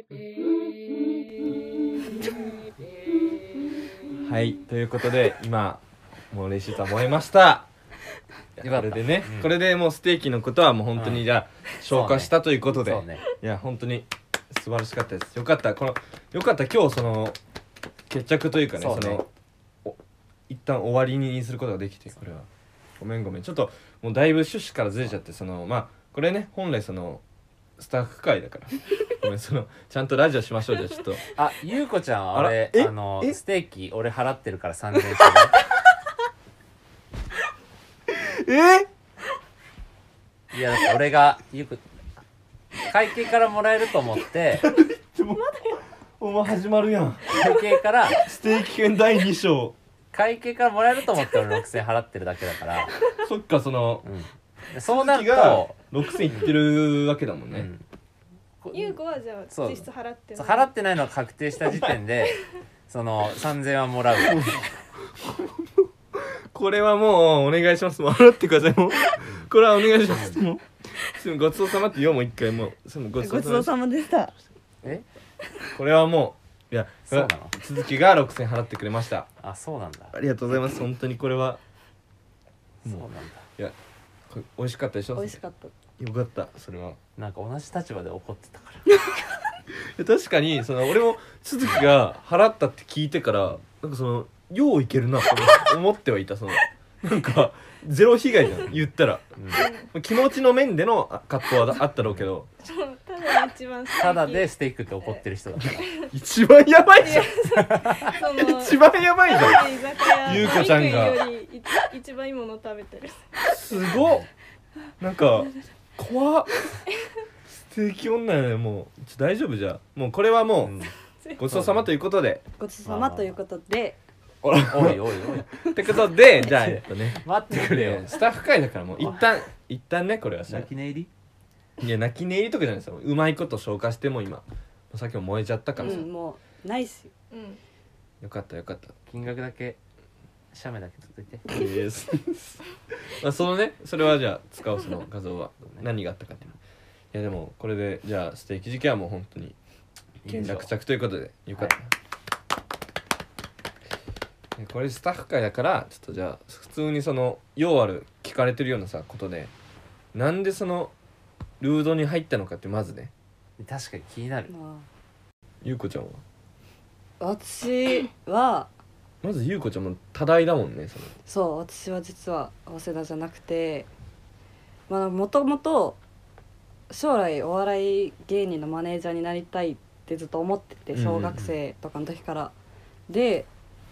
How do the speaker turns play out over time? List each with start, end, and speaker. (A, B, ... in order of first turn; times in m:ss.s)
0:04.2-0:07.7 A
0:08.6-0:17.4 A
0:08.7-0:09.5 B
0:11.0-0:11.3 B
0:11.9-0:13.2 B
0:18.1-0:19.3 A
0:18.8-0:19.3 B
0:20.5-0:22.5 A
0:23.0-0:27.2 A
0:27.8-0:31.2 A
0:31.3-0:35.6 B
0:32.3-0:33.4 A
0:38.1-0:38.9 A
0:40.5-0:41.8 B
0:42.8-0:44.6 B
0:44.6-0:45.4 A
0:45.3-0:45.8 C
0:46.2-0:47.4 A
0:47.2-0:47.6 C
0:47.3-0:48.2 B
0:48.2-0:48.6 C
0:48.2-0:49.8 A
0:50.1-0:53.0 B
0:53.2-0:54.1 A
0:54.0-0:56.5 B
0:54.9-0:57.7 A
0:57.5-0:57.9 B
0:58.6-0:59.0 B
0:58.7-1:00.7 C
0:59.5-1:02.4 B
1:02.9-1:04.4 B
1:04.2-1:05.9 A
1:06.5-1:10.6 A
1:09.2-1:09.5 B
1:10.1-1:10.4 B
1:11.1-1:13.8 A
1:13.2-1:14.3 D
1:15.8-1:19.3 A
1:17.1-1:17.5 B
1:19.4-1:20.2 B
1:20.1-1:21.6 A
1:22.8-1:23.5 B
1:22.9-1:23.8 A
1:24.3-1:25.4 A
1:25.2-1:25.7 D
1:26.0-1:27.0 A
1:27.2-1:28.9 B
1:29.7-1:42.5 A
1:31.6-1:31.9 B
1:39.4-1:39.7 B
1:39.5-1:39.9 C
1:42.0-1:42.3 B
1:42.6-1:46.1 C
1:44.0-1:45.8 B
1:45.9-1:47.4 A
1:47.0-1:54.0 C
1:48.4-1:49.6 A
1:50.2-1:51.3 A
1:50.3-1:50.6 B
1:53.5-1:54.2 A
1:53.9-1:54.3 B
1:55.0-1:56.7 A
1:57.5-2:00.8 A
2:00.6-2:01.0 B
2:01.4-2:02.4 A
2:01.5-2:01.9 B
2:02.6-2:04.0 D
2:02.8-2:03.4 B
2:04.4-2:05.0 A
2:04.6-2:05.5 B
2:05.7-2:10.7 A
2:06.4-2:08.2 B
2:09.0-2:09.3 B
2:10.5-2:11.1 B
2:11.8-2:16.0 A
2:15.8-2:16.1 C
2:15.8-2:17.1 D
2:17.3-2:17.6 C
2:18.2-2:19.0 A
2:19.1-2:19.8 B
2:20.5-2:21.5 B
2:21.5-2:26.6 A
2:27.1-2:29.6 A
2:30.2-2:30.7 B
2:30.3-2:31.9 A
2:34.6-2:39.5 A
2:40.1-2:40.9 A
2:41.6-2:43.1 A
2:43.6-2:44.5 B
2:44.5-2:44.9 D
2:45.6-2:46.2 A
2:47.2-2:48.7 D
2:49.2-2:51.1 A
2:51.3-2:53.9 D
2:54.9-2:56.0 D
2:56.9-3:02.5 D
3:00.9-3:01.4 A
3:01.3-3:01.6 B
3:03.1-3:03.5 D